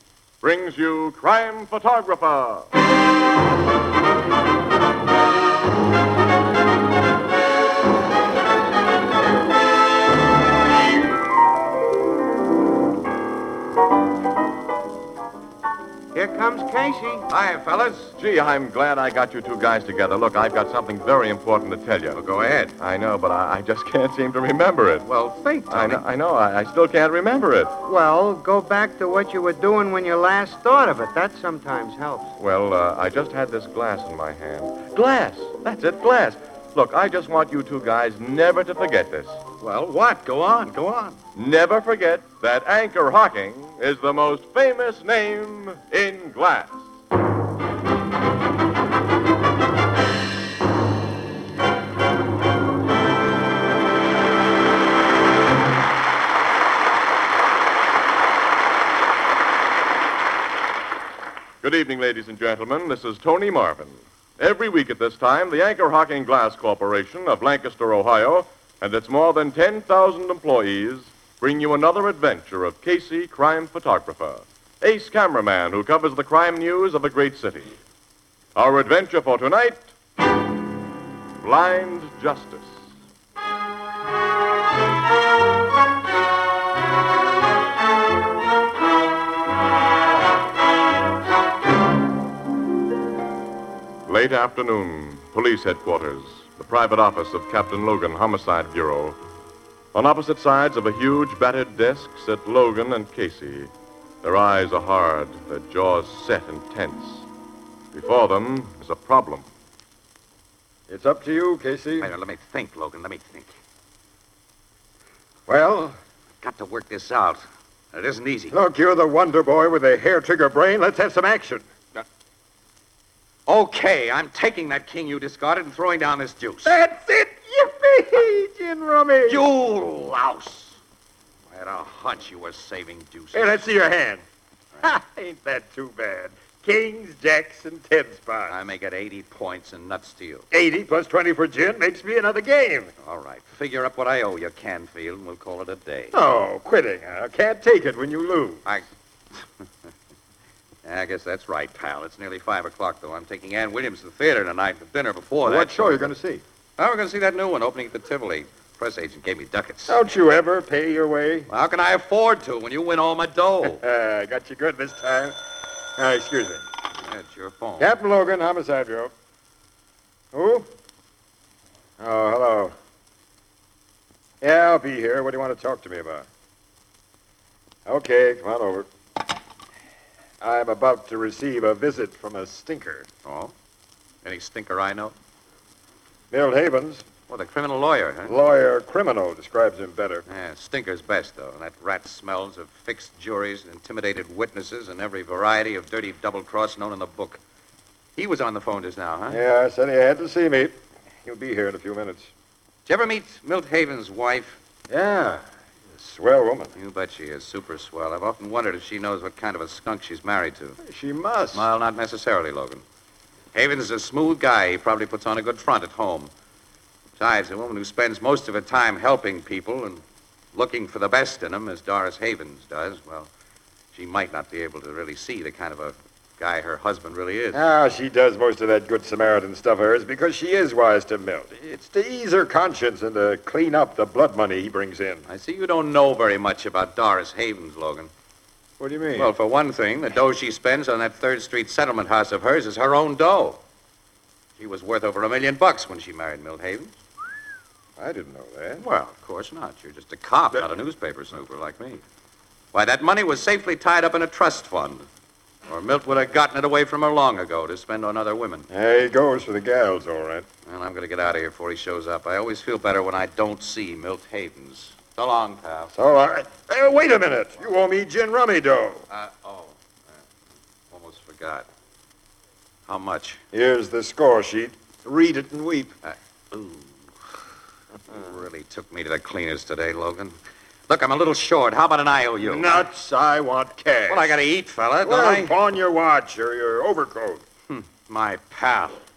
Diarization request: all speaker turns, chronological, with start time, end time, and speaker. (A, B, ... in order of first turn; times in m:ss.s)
0:00.4-0:02.7 A
0:16.1-0:17.3 B
0:17.3-0:18.1 C
0:18.2-0:22.2 A
0:22.1-0:22.7 C
0:22.8-0:25.1 A
0:25.0-0:26.0 C
0:25.7-0:27.8 A
0:27.8-0:32.3 B
0:32.4-0:39.4 A
0:39.6-0:41.2 C
0:41.4-0:46.8 A
1:01.6-1:17.8 A
1:18.6-1:19.9 A
1:21.4-1:22.8 A
1:34.1-1:39.2 A
1:39.9-1:43.7 A
1:44.2-1:47.3 A
1:47.9-1:49.5 A
1:50.9-1:52.1 D
1:52.0-1:53.5 C
1:55.5-1:56.0 D
1:56.4-1:58.6 C
1:58.5-2:02.0 D
2:03.5-2:06.8 C
2:06.6-2:09.4 D
2:09.2-2:10.8 C
2:11.5-2:13.7 C
2:13.3-2:14.2 D
2:14.8-2:18.5 D
2:18.5-2:20.5 C
2:20.5-2:22.9 D
2:23.0-2:26.2 C
2:26.1-2:28.6 D
2:30.8-2:36.1 C
2:35.4-2:36.4 D
2:36.8-2:40.0 C
2:39.9-2:41.5 D
2:41.5-2:43.8 C
2:43.6-2:45.4 D
2:46.0-2:46.6 D
2:47.0-2:47.9 C
2:47.8-2:49.1 D
2:50.3-2:50.7 D
2:52.0-2:52.7 D
2:54.4-2:56.3 D
2:57.9-2:58.9 D
3:00.4-3:03.1 D
3:03.2-3:03.5 C
3:04.2-3:05.2 C
3:06.3-3:07.0 D
3:07.3-3:08.4 C
3:08.3-3:10.2 D
3:10.3-3:17.4 C
3:18.2-3:19.4 C
3:19.3-3:22.3 D
3:22.9-3:24.6 C
3:24.9-3:25.4 D
3:25.9-3:26.7 D
3:26.8-3:30.8 C
3:30.8-3:31.7 D
3:31.5-3:32.8 C
3:33.5-3:36.3 C
3:37.2-3:40.0 C
3:40.5-3:43.3 C
3:43.9-3:47.6 C
3:47.5-3:55.2 D
3:55.3-3:58.1 C
3:58.8-3:59.3 D
3:59.1-4:03.6 C
4:04.6-4:07.0 C
4:08.0-4:08.9 D
4:08.8-4:12.0 C
4:12.7-4:15.1 C
4:15.7-4:18.7 C
4:18.7-4:20.5 D
4:20.6-4:25.9 C
4:25.9-4:29.0 D
4:29.1-4:30.2 C
4:30.9-4:31.7 C
4:32.9-4:33.4 C
4:33.5-4:35.9 D
4:36.0-4:37.1 C
4:38.1-4:40.4 C
4:40.9-4:42.9 C
4:42.4-4:44.3 D
4:44.1-4:45.6 C
4:45.0-4:47.4 D
4:47.7-4:49.0 C